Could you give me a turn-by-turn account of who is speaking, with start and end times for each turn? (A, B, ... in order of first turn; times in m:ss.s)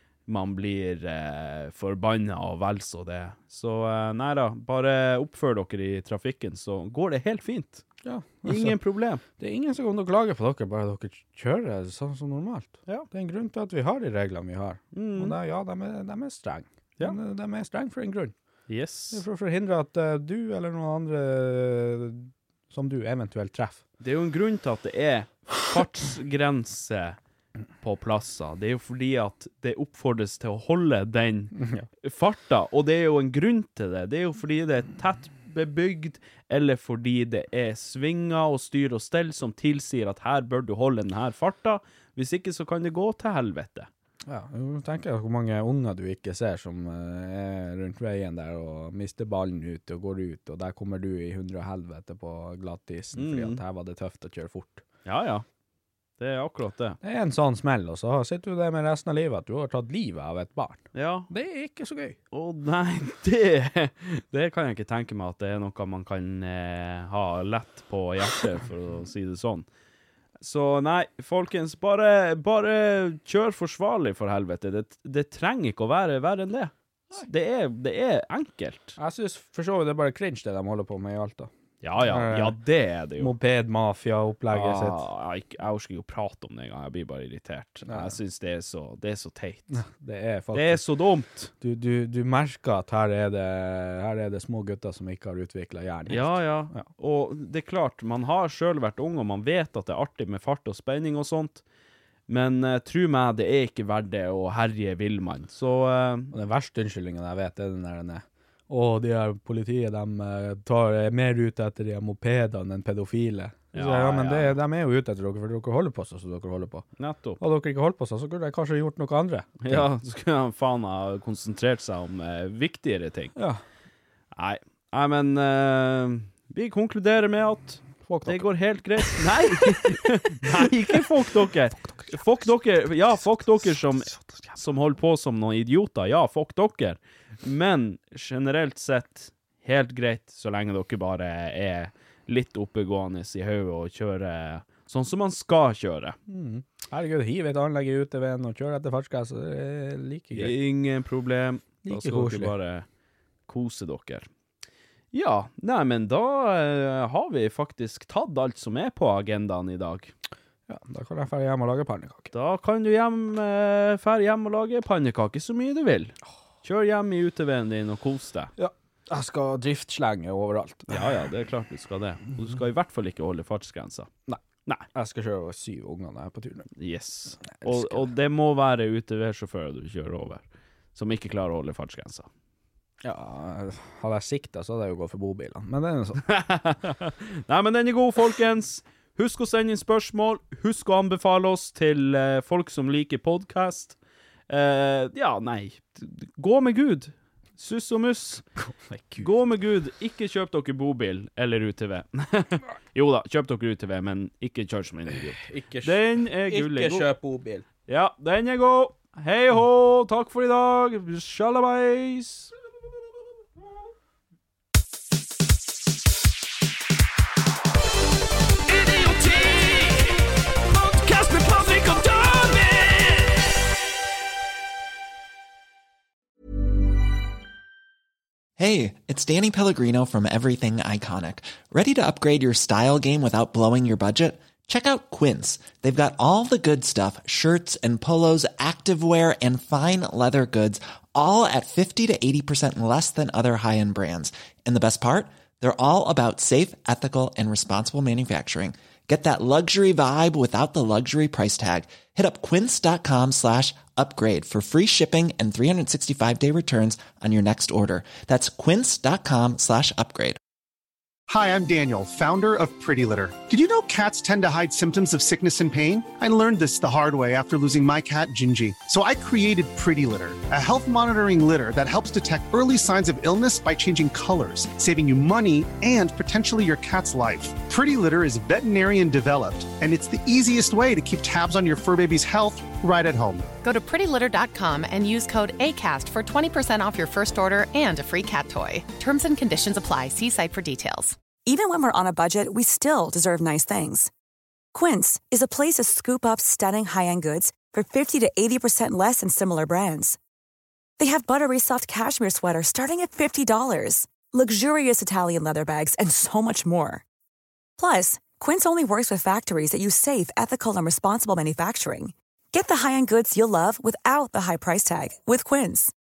0:00.3-0:07.8 A
0:08.0-0:08.8 B
0:08.4-0:09.2 A
0:09.4-0:18.3 B
0:14.9-0:15.4 A
0:18.7-0:19.2 A
0:19.1-0:23.8 B
0:24.0-0:27.2 A
0:27.8-0:43.9 A
0:31.6-0:31.8 B
0:44.3-0:54.8 B
0:53.2-0:53.6 A
0:55.0-0:55.4 A
0:56.2-0:57.0 A
0:57.0-1:02.2 B
1:00.9-1:01.3 A
1:02.3-1:09.6 A
1:10.4-1:19.0 A
1:19.0-1:22.6 B
1:21.8-1:23.3 A
1:23.2-1:25.0 B
1:24.5-1:29.8 A
1:27.8-1:28.1 B
1:29.7-1:30.8 B
1:30.5-1:31.5 A
1:31.6-1:36.9 B
1:36.1-1:41.6 A
1:42.3-1:46.3 A
1:46.3-1:56.8 B
1:53.7-1:54.6 A
1:57.0-1:57.4 A
1:57.4-1:59.8 B
1:59.6-2:03.4 A
2:03.4-2:03.6 B
2:04.4-2:26.2 A
2:08.0-2:08.5 B
2:09.2-2:10.7 B
2:14.1-2:14.4 B
2:26.3-2:30.6 B
2:30.3-2:32.8 A
2:31.8-2:32.5 B
2:33.5-2:34.3 A
2:35.1-2:40.1 A
2:40.7-2:42.3 B
2:42.3-2:48.5 A
2:48.6-2:51.1 B
2:50.9-2:54.1 A
2:54.9-2:56.7 B
2:56.8-3:02.3 A
2:57.5-2:58.1 B
3:03.0-3:06.2 B
3:06.3-3:14.0 A
3:14.5-3:18.4 A
3:18.6-3:19.3 B
3:19.2-3:27.1 A
3:25.3-3:27.6 B
3:27.9-3:32.5 A
3:38.7-3:40.2 A
3:40.7-3:43.4 A
3:48.6-4:20.4 C
4:21.3-4:43.5 D
4:43.6-4:51.2 E
4:51.4-4:54.1 F
4:54.7-5:00.2 F
5:01.0-5:07.0 F
5:07.8-5:15.9 F